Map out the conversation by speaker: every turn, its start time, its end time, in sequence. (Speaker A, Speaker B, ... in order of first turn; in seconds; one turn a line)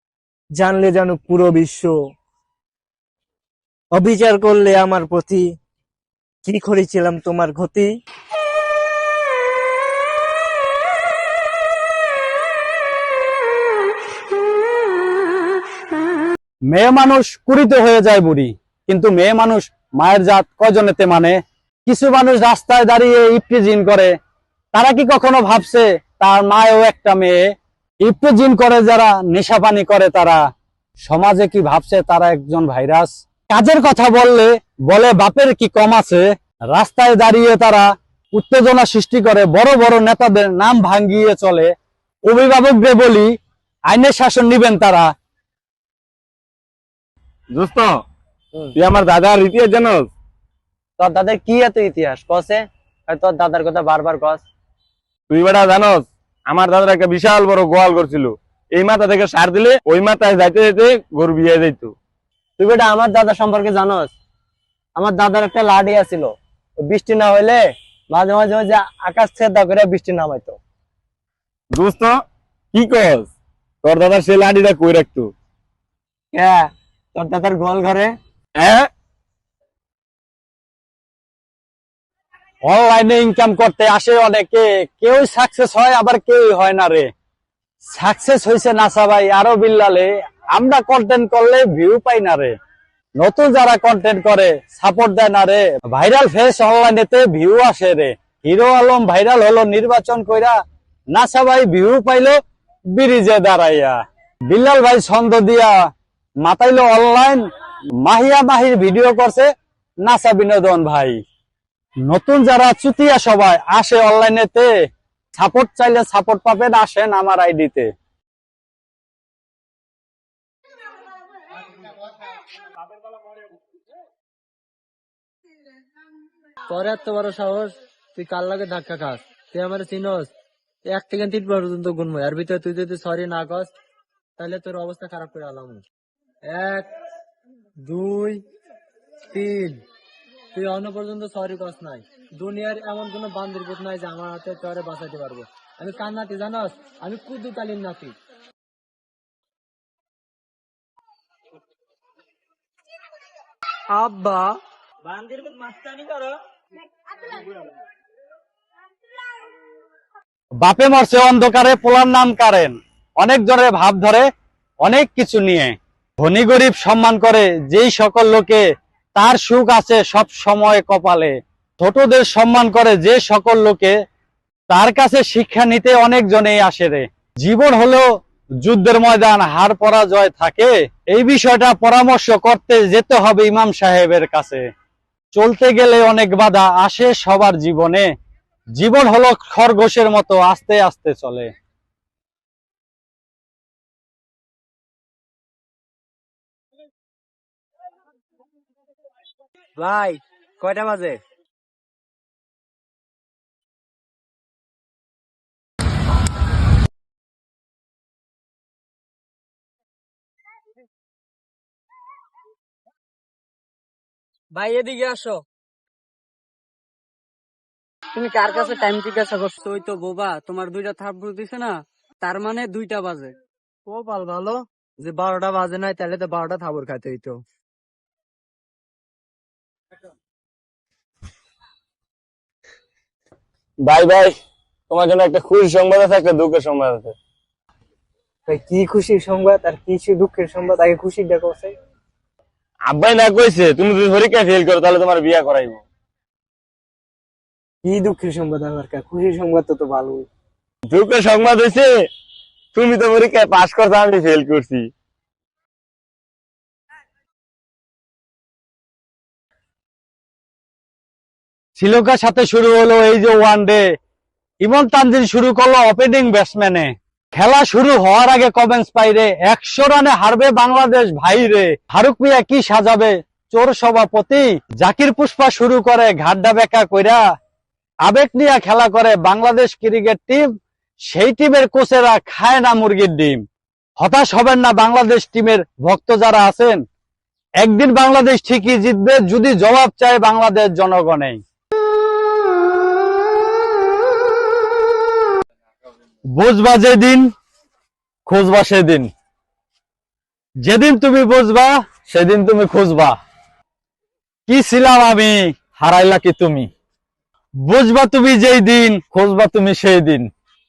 Speaker A: 0.6-1.9
Speaker A: 3.9-5.4
Speaker A: 6.4-7.9
Speaker B: 16.7-24.1
Speaker B: 24.7-27.4
Speaker B: 28.0-30.4
Speaker B: 31.0-41.7
Speaker B: 42.2-43.3
Speaker B: 43.9-45.1
Speaker C: 47.5-47.9
Speaker C: 48.8-50.1
Speaker D: 51.0-54.4
Speaker C: 55.3-61.9
Speaker D: 62.6-64.1
Speaker D: 65.0-70.6
Speaker C: 71.7-72.1
Speaker C: 72.7-73.3
Speaker C: 73.8-75.3
Speaker D: 76.3-78.2
Speaker B: 82.7-87.1
Speaker B: 87.9-92.5
Speaker B: 93.2-100.5
Speaker B: 101.1-102.4
Speaker B: 102.9-104.0
Speaker B: 104.5-105.8
Speaker B: 106.4-107.4
Speaker B: 108.0-109.5
Speaker B: 110.0-111.2
Speaker B: 112.1-114.7
Speaker B: 115.3-117.9
Speaker E: 126.7-130.3
Speaker E: 130.9-133.7
Speaker E: 134.4-135.8
Speaker E: 136.5-136.9
Speaker E: 137.8-138.4
Speaker E: 139.3-139.8
Speaker E: 140.5-148.2
Speaker E: 153.9-154.5
Speaker E: 155.4-156.0
Speaker B: 160.6-164.2
Speaker B: 164.8-168.6
Speaker B: 169.2-173.9
Speaker B: 174.7-178.1
Speaker B: 178.6-184.6
Speaker B: 185.3-188.1
Speaker B: 188.8-191.5
Speaker E: 199.8-201.2
Speaker E: 214.5-215.4
Speaker E: 218.2-223.3
Speaker E: 223.9-227.4
Speaker C: 233.8-234.3
Speaker C: 234.9-237.1
Speaker A: 238.5-241.7
Speaker C: 242.9-245.8
Speaker A: 247.8-250.3
Speaker C: 250.9-251.9
Speaker C: 252.7-254.8
Speaker B: 261.8-263.8
Speaker B: 264.6-277.2
Speaker B: 278.0-280.5
Speaker B: 281.1-283.4
Speaker B: 284.0-286.8
Speaker B: 287.6-291.4
Speaker B: 296.3-297.3
Speaker B: 298.3-299.1
Speaker B: 300.6-303.1
Speaker B: 304.5-306.7
Speaker B: 307.6-310.3